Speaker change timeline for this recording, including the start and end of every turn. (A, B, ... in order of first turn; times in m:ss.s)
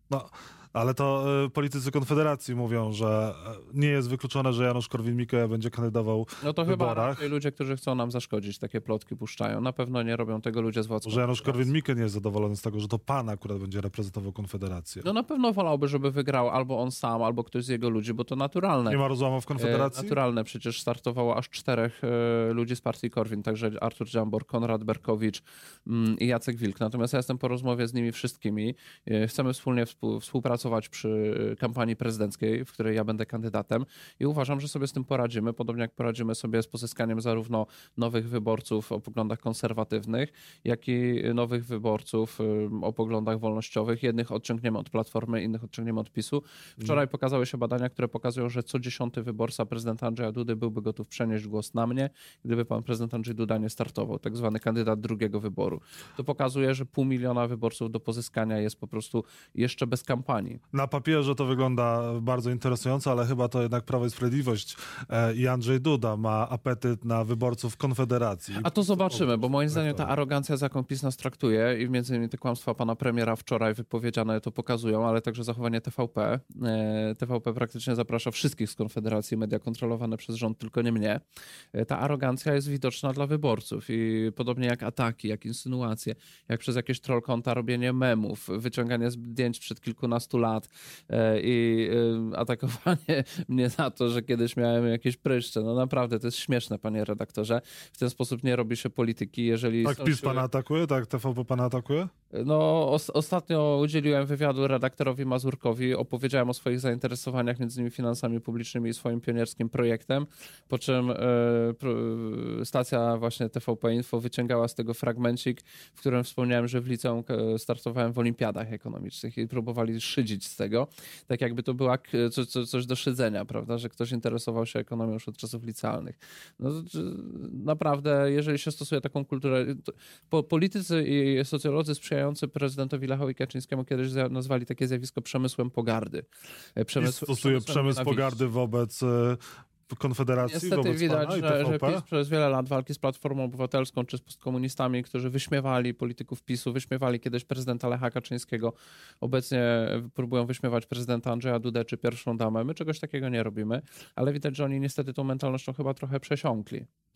0:00.1-0:07.3 A
0:06.4-0:11.7 B
0:11.0-0:15.1 A
0:15.0-0:19.0 B
0:18.9-0:20.1 A
0:19.6-1:00.6 B
1:00.7-1:10.1 A
1:08.6-1:21.2 B
1:21.7-1:40.4 B
1:39.8-1:42.1 A
1:42.3-2:16.2 B
2:16.8-2:18.4 B
2:17.0-2:22.0 A
2:20.5-2:36.9 B